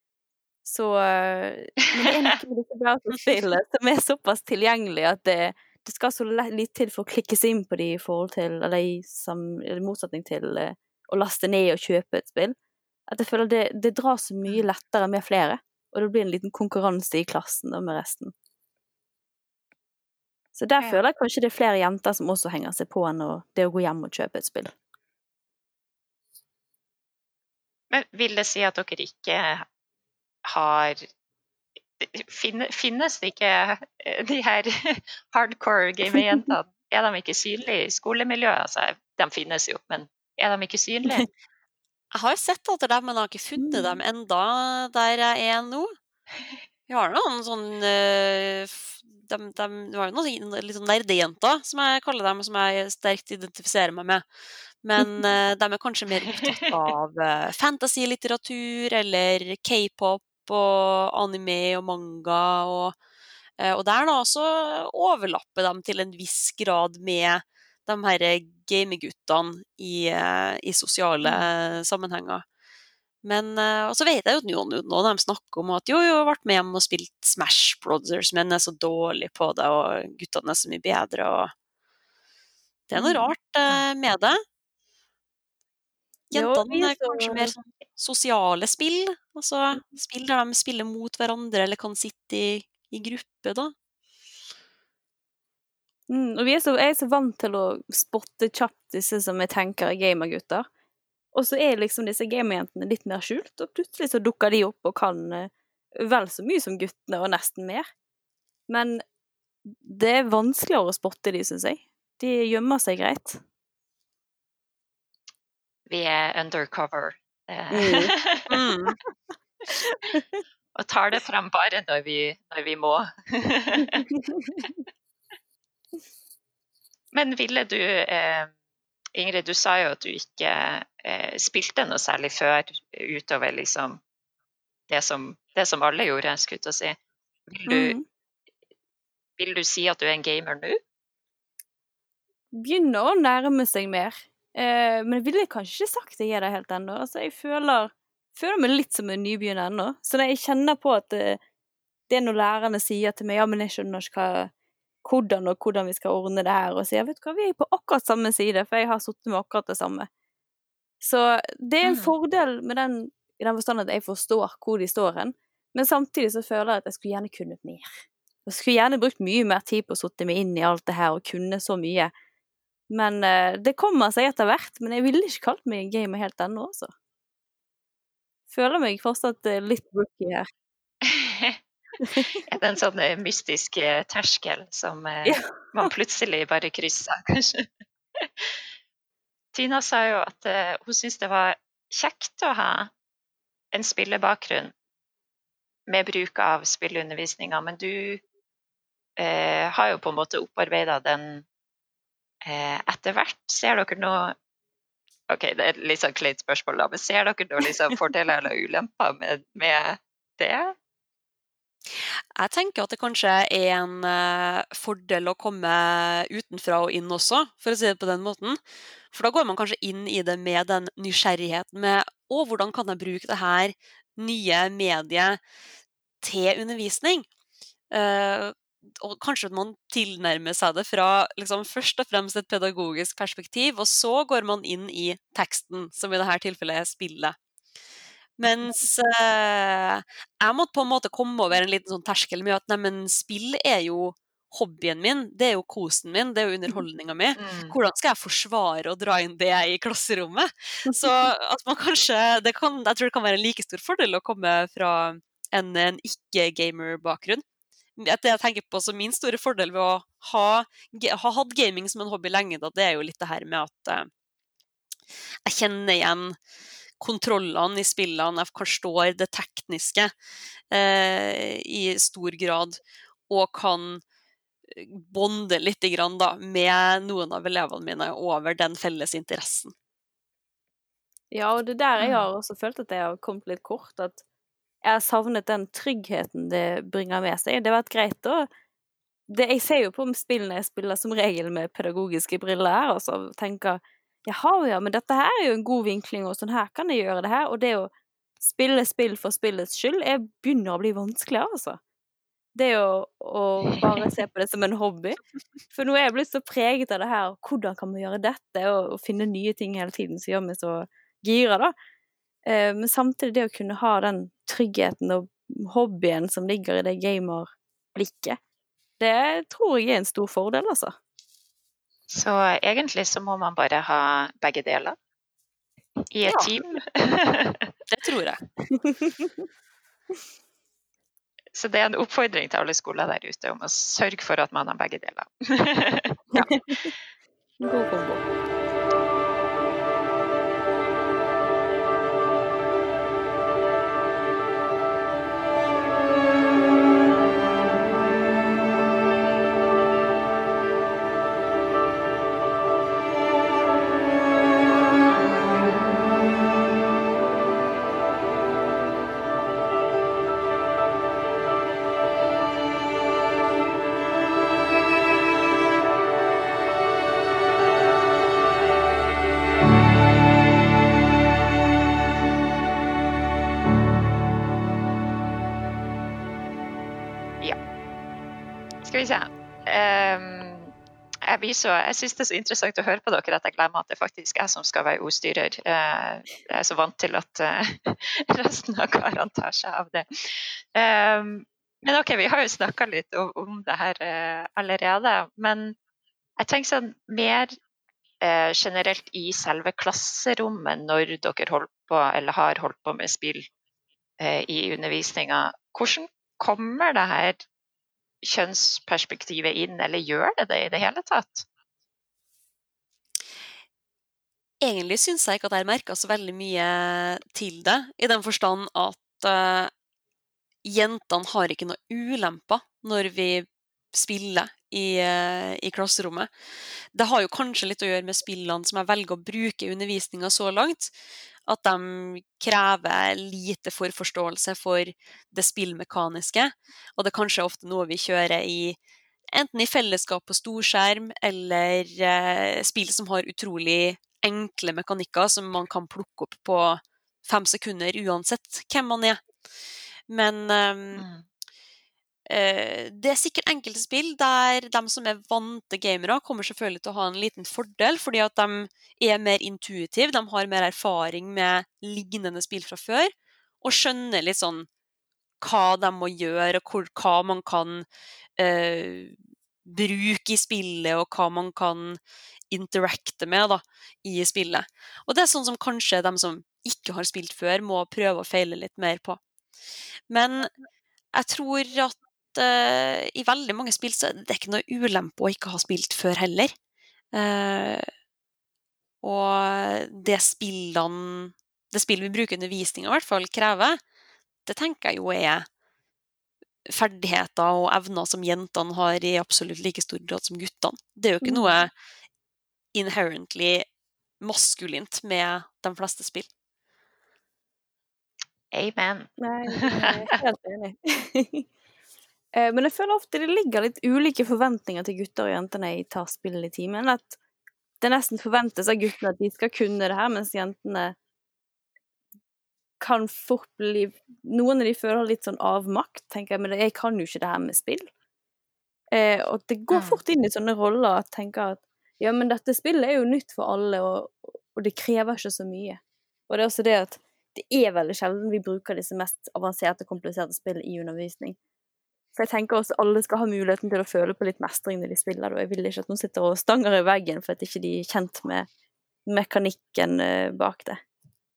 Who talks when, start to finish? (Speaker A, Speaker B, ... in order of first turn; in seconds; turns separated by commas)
Speaker A: 0.6-12.5, Speaker A: 13.1-18.3, Speaker A: 20.6-24.7, Speaker B: 27.9-29.6, Speaker B: 30.4-31.1, Speaker B: 32.0-41.3, Speaker A: 36.1-36.5, Speaker C: 42.1-45.9, Speaker A: 43.6-44.0, Speaker C: 46.9-54.2, Speaker C: 54.8-63.0, Speaker C: 63.6-72.4, Speaker C: 73.2-81.5, Speaker C: 82.9-84.4, Speaker A: 83.0-83.3, Speaker C: 86.3-93.7, Speaker A: 86.3-87.5, Speaker A: 96.1-100.6, Speaker A: 101.3-107.8, Speaker A: 108.7-109.0, Speaker A: 109.6-113.4, Speaker B: 115.9-118.5, Speaker A: 117.7-118.1, Speaker C: 118.5-119.0, Speaker B: 120.7-124.1, Speaker A: 124.1-124.6, Speaker B: 127.1-128.5, Speaker B: 129.1-134.0, Speaker B: 134.9-137.0, Speaker B: 137.5-137.9, Speaker A: 137.7-138.0, Speaker B: 139.4-140.8, Speaker A: 142.5-151.4, Speaker A: 152.1-154.5, Speaker A: 155.0-160.1, Speaker A: 161.0-167.9, Speaker B: 161.8-162.1, Speaker A: 168.4-172.1, Speaker A: 172.9-176.9, Speaker A: 178.5-180.4, Speaker B: 181.0-181.6, Speaker A: 182.0-182.3, Speaker B: 182.4-188.5, Speaker A: 185.2-185.9, Speaker B: 189.5-192.9, Speaker B: 193.7-194.7, Speaker B: 195.9-198.2, Speaker B: 199.2-201.4, Speaker B: 202.4-204.3, Speaker B: 205.3-210.7, Speaker C: 212.4-218.6, Speaker C: 219.1-225.4, Speaker C: 226.2-227.3, Speaker C: 227.9-237.4, Speaker C: 238.4-257.4, Speaker B: 247.4-247.7, Speaker C: 258.0-264.1, Speaker C: 265.4-266.4, Speaker C: 267.0-270.1, Speaker C: 270.7-274.0, Speaker C: 274.7-279.7, Speaker A: 281.3-284.2, Speaker B: 282.0-282.3, Speaker A: 284.8-288.5, Speaker A: 289.3-297.9, Speaker A: 298.4-301.8, Speaker A: 302.5-305.2, Speaker B: 303.7-304.0, Speaker A: 305.7-311.7, Speaker A: 312.4-318.4, Speaker A: 319.0-320.9, Speaker B: 322.1-324.9, Speaker B: 326.1-327.7, Speaker A: 326.3-326.6, Speaker C: 327.9-328.4, Speaker A: 328.9-329.4, Speaker B: 331.5-336.5, Speaker A: 336.3-336.9, Speaker A: 337.6-338.2, Speaker B: 378.8-380.7, Speaker B: 381.2-395.8, Speaker B: 396.4-397.5, Speaker B: 398.2-403.5, Speaker B: 404.2-407.4, Speaker B: 408.2-411.4, Speaker C: 414.6-419.7, Speaker C: 420.6-426.3, Speaker C: 426.9-430.9, Speaker C: 431.5-438.8, Speaker C: 439.3-449.2, Speaker C: 450.1-451.0, Speaker B: 450.9-451.2, Speaker C: 452.3-464.7, Speaker C: 465.4-467.8, Speaker C: 468.4-472.0, Speaker C: 472.5-479.2, Speaker C: 480.1-480.5, Speaker C: 481.1-486.5, Speaker C: 487.1-487.9, Speaker C: 489.0-493.8, Speaker C: 494.4-495.4, Speaker C: 496.7-501.7, Speaker A: 501.2-501.5, Speaker C: 502.7-503.6, Speaker C: 504.2-506.3, Speaker B: 508.5-510.1, Speaker A: 509.2-511.5, Speaker A: 512.3-517.2, Speaker A: 517.8-521.0, Speaker A: 522.8-527.9, Speaker A: 528.9-541.4, Speaker B: 529.7-530.0, Speaker A: 542.1-548.5, Speaker A: 549.1-550.8